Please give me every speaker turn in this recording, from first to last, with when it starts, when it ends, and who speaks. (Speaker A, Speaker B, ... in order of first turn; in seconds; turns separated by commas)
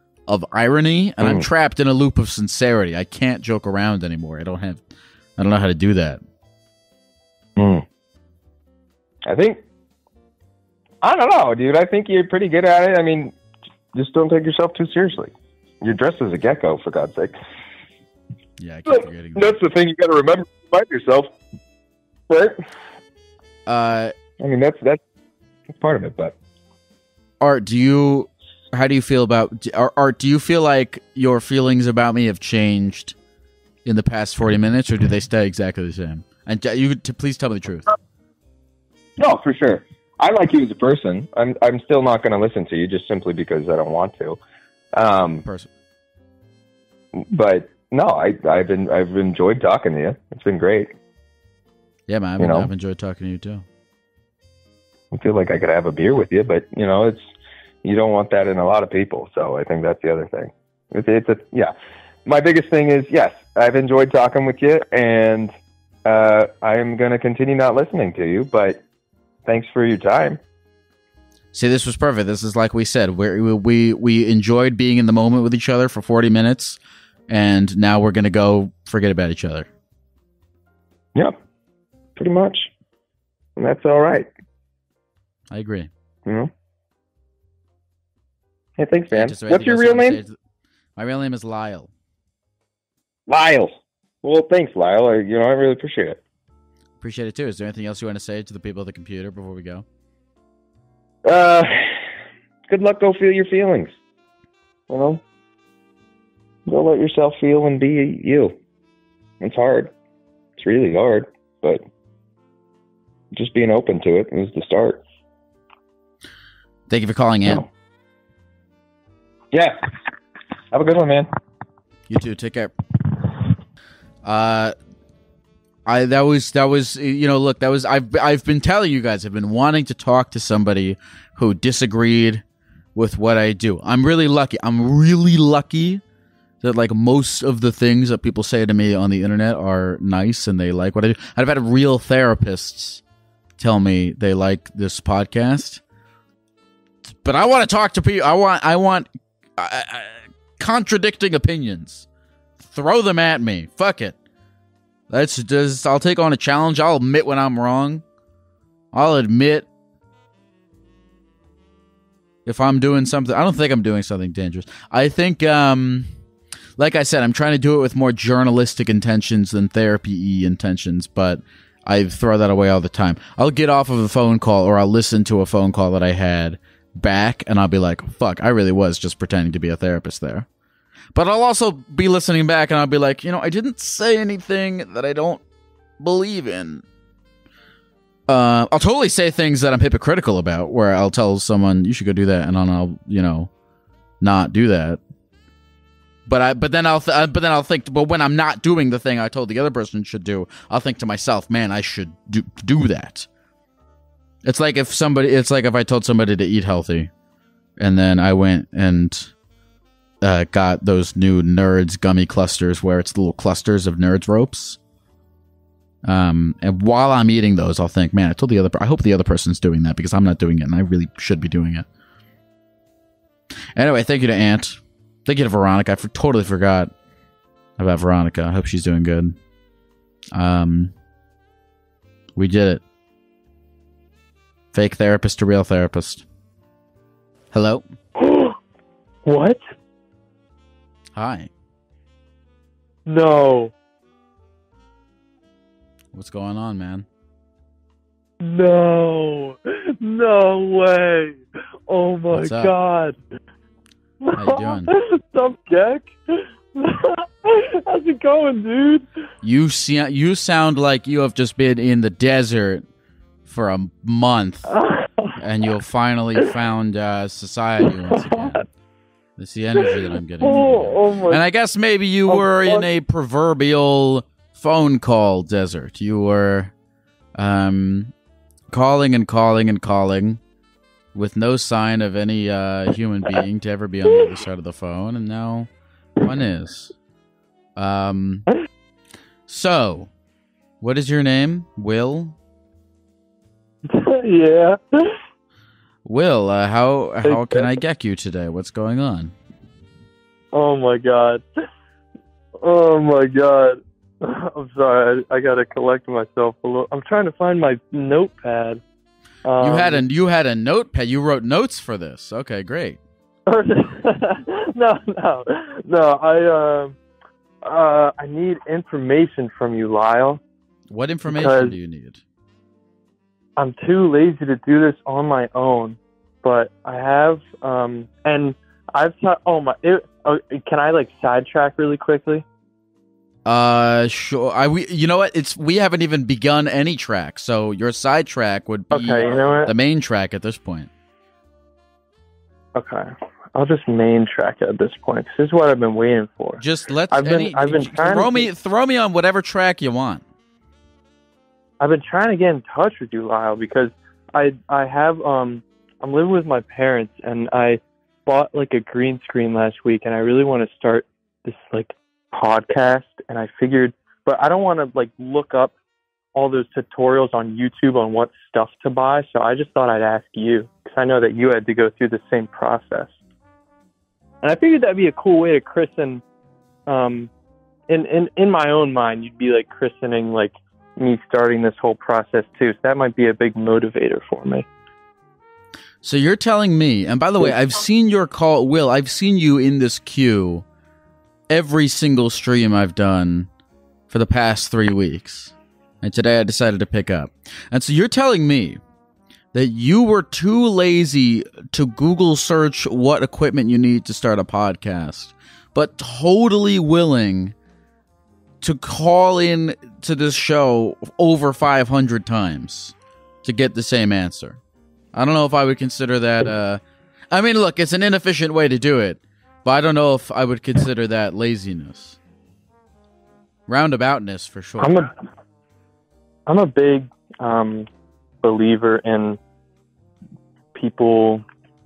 Speaker A: 0.3-4.8, Speaker B: 1.2-1.5, Speaker A: 5.4-6.2, Speaker B: 7.5-7.8, Speaker B: 9.2-9.6, Speaker B: 11.0-13.3, Speaker B: 13.9-17.4, Speaker A: 18.6-19.6, Speaker B: 18.9-21.3, Speaker B: 22.3-22.6, Speaker A: 23.6-24.1, Speaker B: 24.4-25.0, Speaker B: 25.7-26.4, Speaker A: 27.4-33.1, Speaker A: 33.8-37.9, Speaker B: 39.2-44.4, Speaker B: 44.9-45.4, Speaker A: 45.4-45.7, Speaker B: 47.1-50.9, Speaker A: 52.1-53.6, Speaker B: 52.4-52.7, Speaker B: 55.1-57.3, Speaker B: 57.8-61.7, Speaker B: 62.2-65.5, Speaker B: 66.0-68.8, Speaker B: 69.5-70.4, Speaker A: 71.5-79.7, Speaker B: 82.2-82.7, Speaker B: 83.6-84.3, Speaker A: 85.5-85.9, Speaker B: 86.2-86.5, Speaker B: 88.8-90.2, Speaker A: 89.1-90.3, Speaker A: 91.0-91.9, Speaker B: 93.3-96.2, Speaker A: 97.0-99.8, Speaker B: 101.2-102.0, Speaker B: 102.7-103.9, Speaker B: 104.9-105.2, Speaker B: 106.7-108.5, Speaker B: 109.4-109.9, Speaker B: 110.6-111.8, Speaker B: 113.3-115.0, Speaker A: 116.9-117.6, Speaker B: 119.5-119.8, Speaker B: 120.7-121.3, Speaker A: 122.1-122.7, Speaker A: 124.2-124.7, Speaker A: 125.8-132.4, Speaker A: 132.9-136.0, Speaker A: 136.6-143.0, Speaker A: 143.6-145.8, Speaker A: 147.2-152.1, Speaker A: 152.6-154.2, Speaker A: 155.1-158.0, Speaker A: 158.9-159.7, Speaker A: 162.4-166.1, Speaker A: 166.8-180.4, Speaker A: 181.1-185.4, Speaker A: 186.0-186.8, Speaker A: 188.3-193.5, Speaker A: 194.2-195.0, Speaker A: 196.2-203.3, Speaker A: 204.4-207.1, Speaker A: 207.8-209.3, Speaker A: 210.2-214.8, Speaker A: 216.0-221.8, Speaker A: 223.7-226.9, Speaker A: 227.8-229.3, Speaker A: 230.3-230.9, Speaker A: 232.3-232.8, Speaker A: 234.7-236.2, Speaker A: 237.5-237.8, Speaker C: 238.2-238.6, Speaker C: 239.2-239.6, Speaker A: 241.1-241.5, Speaker C: 243.1-243.7, Speaker A: 246.1-247.1, Speaker C: 248.4-253.2, Speaker A: 252.3-252.7, Speaker C: 254.2-259.1, Speaker A: 254.3-254.9, Speaker A: 259.4-262.9, Speaker A: 263.4-264.7, Speaker C: 264.7-265.4, Speaker A: 265.4-268.6, Speaker C: 268.2-268.6, Speaker A: 269.4-276.7, Speaker C: 270.4-271.4, Speaker C: 272.3-272.8, Speaker A: 277.3-278.1, Speaker A: 278.7-280.4, Speaker A: 281.1-285.7, Speaker A: 286.2-286.9, Speaker A: 287.8-288.4, Speaker A: 289.5-290.1, Speaker A: 290.8-292.3, Speaker C: 293.9-295.2, Speaker A: 296.0-299.3, Speaker C: 297.2-297.7, Speaker C: 300.5-301.4, Speaker C: 302.6-308.8, Speaker C: 309.4-310.0, Speaker A: 309.6-313.0, Speaker C: 313.5-316.9, Speaker C: 317.6-320.4, Speaker A: 320.9-322.2, Speaker C: 321.3-321.7, Speaker C: 323.6-332.4, Speaker A: 333.4-340.9, Speaker C: 338.9-339.7, Speaker C: 342.7-348.5, Speaker A: 346.6-350.2, Speaker C: 351.8-365.7, Speaker C: 366.3-373.1, Speaker C: 374.4-376.2, Speaker C: 376.9-377.3, Speaker C: 377.9-384.7, Speaker A: 386.0-390.6, Speaker A: 391.5-393.5, Speaker A: 394.1-398.8, Speaker A: 399.5-407.5, Speaker A: 408.6-414.6, Speaker A: 415.1-422.2, Speaker A: 423.7-425.0, Speaker C: 424.8-425.1, Speaker C: 426.5-427.9, Speaker C: 428.4-429.4, Speaker C: 430.7-431.4